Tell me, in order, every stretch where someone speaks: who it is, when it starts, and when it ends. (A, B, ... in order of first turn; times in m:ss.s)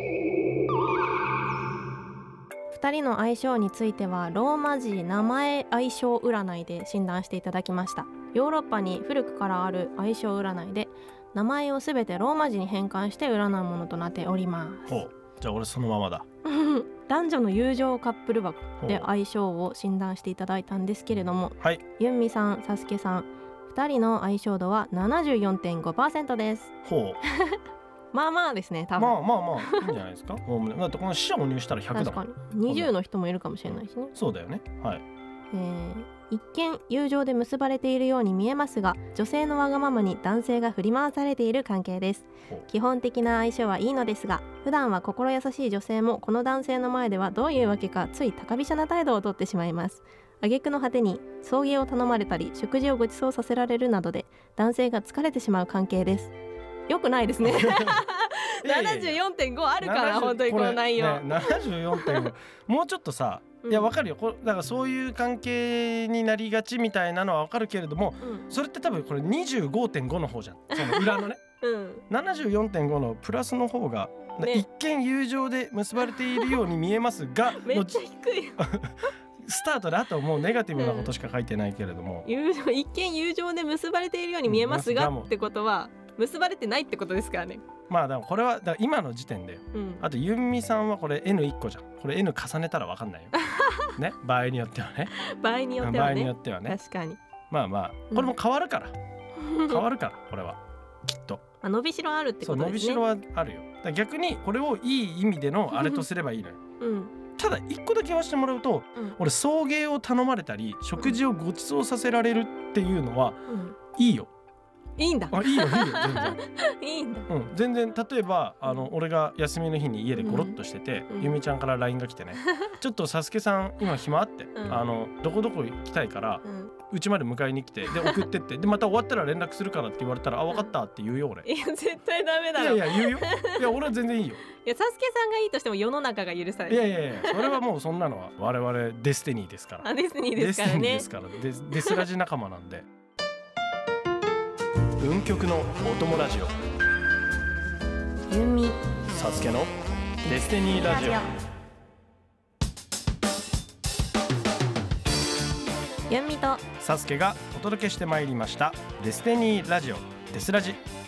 0:02.7-0:14.9 A
0:14.9-0:16.3 B
0:16.4-0:26.7 A
0:18.8-0:19.1 B
0:26.8-0:27.2 B
0:27.2-0:27.6 A
0:28.1-0:29.9 A
0:29.0-0:32.9 B
0:31.9-0:34.1 A
0:34.2-0:35.0 B
0:35.5-0:56.4 A
0:56.9-1:02.3 A
0:57.4-0:58.0 B
0:58.6-0:59.2 B
0:59.8-1:11.4 B
1:03.6-1:03.9 A
1:08.2-1:08.5 A
1:10.7-1:12.0 A
1:12.1-1:18.0 B
1:14.4-1:14.7 A
1:16.2-1:16.6 A
1:17.5-1:18.6 A
1:18.6-1:22.3 B
1:20.8-1:21.1 A
1:22.2-1:27.6 A
1:24.5-1:25.3 B
1:27.9-1:35.1 B
1:29.7-1:30.0 A
1:33.4-1:33.9 A
1:35.2-1:37.2 A
1:35.8-1:36.8 B
1:37.5-1:39.0 B
1:39.4-1:39.8 A
1:39.6-1:41.4 B
1:41.6-1:43.0 A
1:42.4-1:46.6 B
1:45.7-1:46.0 A
1:46.8-1:47.1 A
1:47.4-1:54.3 B
1:53.5-1:53.8 A
1:55.0-1:57.3 A
1:55.3-1:56.4 B
1:57.3-2:11.5 B
2:00.2-2:00.6 A
2:01.1-2:01.4 A
2:02.4-2:02.7 A
2:04.6-2:04.9 A
2:06.4-2:06.7 A
2:07.9-2:08.2 A
2:11.4-2:13.9 A
2:12.6-2:14.4 B
2:14.5-2:17.6 A
2:16.7-2:22.9 B
2:19.8-2:21.1 A
2:21.7-2:22.1 A
2:25.0-2:26.5 B
2:28.3-2:28.8 A
2:29.1-2:29.7 B
2:30.2-2:31.3 B
2:30.2-2:31.3 A
2:36.1-2:36.6 A
2:36.8-2:40.8 B